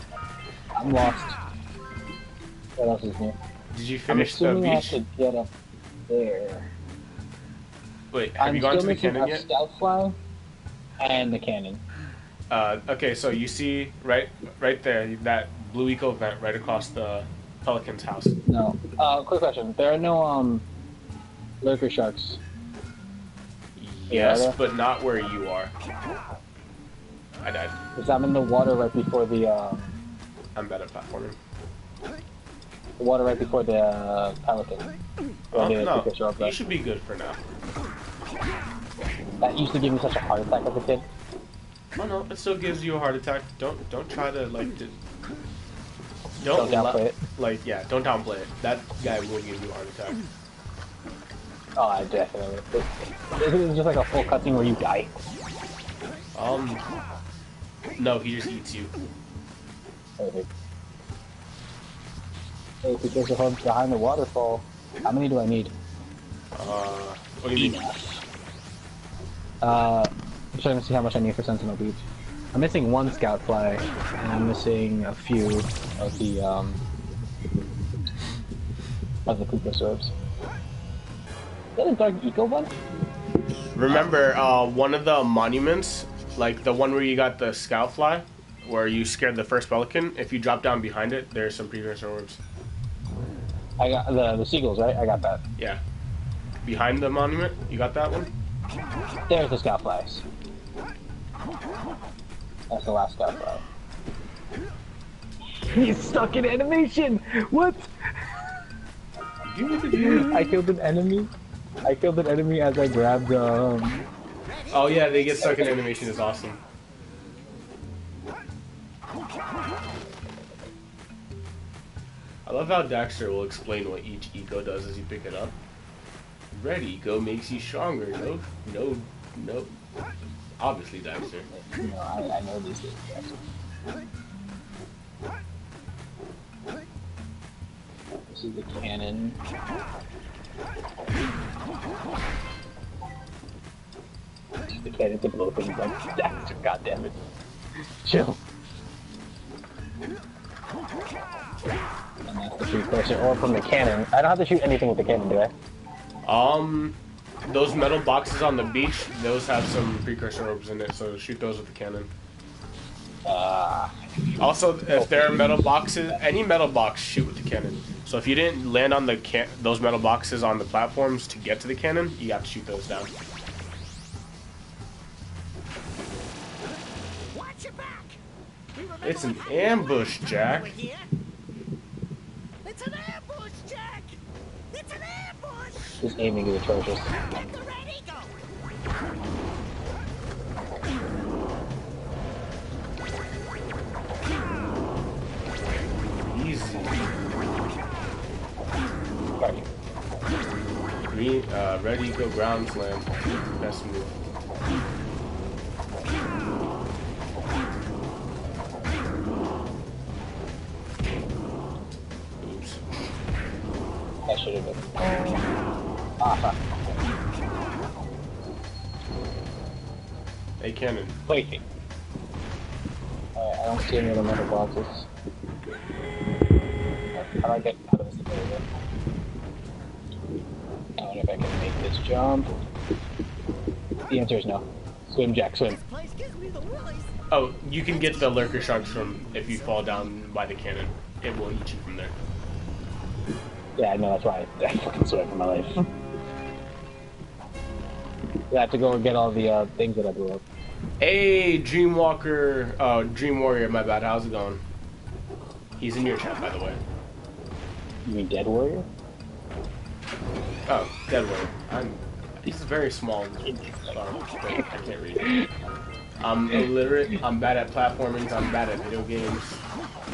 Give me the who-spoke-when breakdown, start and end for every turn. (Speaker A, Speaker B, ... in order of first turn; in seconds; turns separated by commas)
Speaker A: 0.8-1.4, Speaker A: 2.8-3.4, Speaker B: 3.7-5.0, Speaker A: 4.1-5.5, Speaker A: 6.1-6.7, Speaker B: 8.1-9.4, Speaker A: 8.4-10.2, Speaker A: 11.0-11.8, Speaker B: 12.5-18.4, Speaker A: 18.5-20.6, Speaker A: 21.6-22.4, Speaker B: 23.8-25.7, Speaker A: 24.1-24.6, Speaker B: 27.4-27.8, Speaker A: 27.9-30.0, Speaker B: 30.6-31.4, Speaker A: 33.0-34.9, Speaker A: 35.5-36.5, Speaker B: 35.5-37.4, Speaker A: 39.4-41.1, Speaker B: 42.0-45.0, Speaker B: 46.4-50.2, Speaker A: 46.5-47.2, Speaker A: 51.8-55.1, Speaker B: 56.4-56.9, Speaker B: 58.0-58.9, Speaker A: 60.2-60.5, Speaker A: 62.8-65.7, Speaker B: 66.5-67.8, Speaker A: 67.5-68.2, Speaker A: 69.6-76.8, Speaker A: 79.3-80.1, Speaker A: 81.8-82.7, Speaker B: 83.8-92.4, Speaker A: 93.8-95.4, Speaker B: 96.6-98.3, Speaker A: 99.3-100.2, Speaker A: 102.7-103.6, Speaker A: 105.6-107.9, Speaker B: 109.5-110.5, Speaker A: 109.9-111.3, Speaker A: 111.8-114.1, Speaker B: 114.7-116.6, Speaker A: 115.4-116.0, Speaker B: 122.5-125.5, Speaker B: 126.5-129.7, Speaker B: 130.6-131.5, Speaker A: 131.5-133.4, Speaker A: 138.3-139.4, Speaker A: 144.7-147.2, Speaker A: 148.0-148.4, Speaker A: 152.3-155.5, Speaker B: 156.2-162.1, Speaker A: 163.2-164.0, Speaker B: 164.4-173.1, Speaker A: 164.9-166.2, Speaker C: 177.3-178.1, Speaker C: 178.8-179.9, Speaker B: 179.0-180.8, Speaker C: 180.5-181.1, Speaker C: 182.7-184.1, Speaker C: 184.7-186.0, Speaker A: 186.0-187.1, Speaker C: 187.2-188.3, Speaker B: 196.1-197.1, Speaker A: 199.4-199.7, Speaker B: 201.0-204.2, Speaker B: 212.4-212.8, Speaker A: 214.3-215.4, Speaker A: 216.2-216.6, Speaker B: 220.6-221.2, Speaker A: 221.3-221.6, Speaker A: 223.4-225.1, Speaker A: 227.1-228.6, Speaker A: 231.0-232.6, Speaker A: 234.1-235.8, Speaker C: 235.8-237.1, Speaker B: 237.3-242.1, Speaker A: 243.8-245.9, Speaker A: 248.5-250.4, Speaker B: 251.0-254.6, Speaker B: 255.8-256.8, Speaker A: 258.1-258.9, Speaker B: 260.7-265.4, Speaker A: 263.5-263.9, Speaker A: 265.2-265.5, Speaker B: 266.2-269.6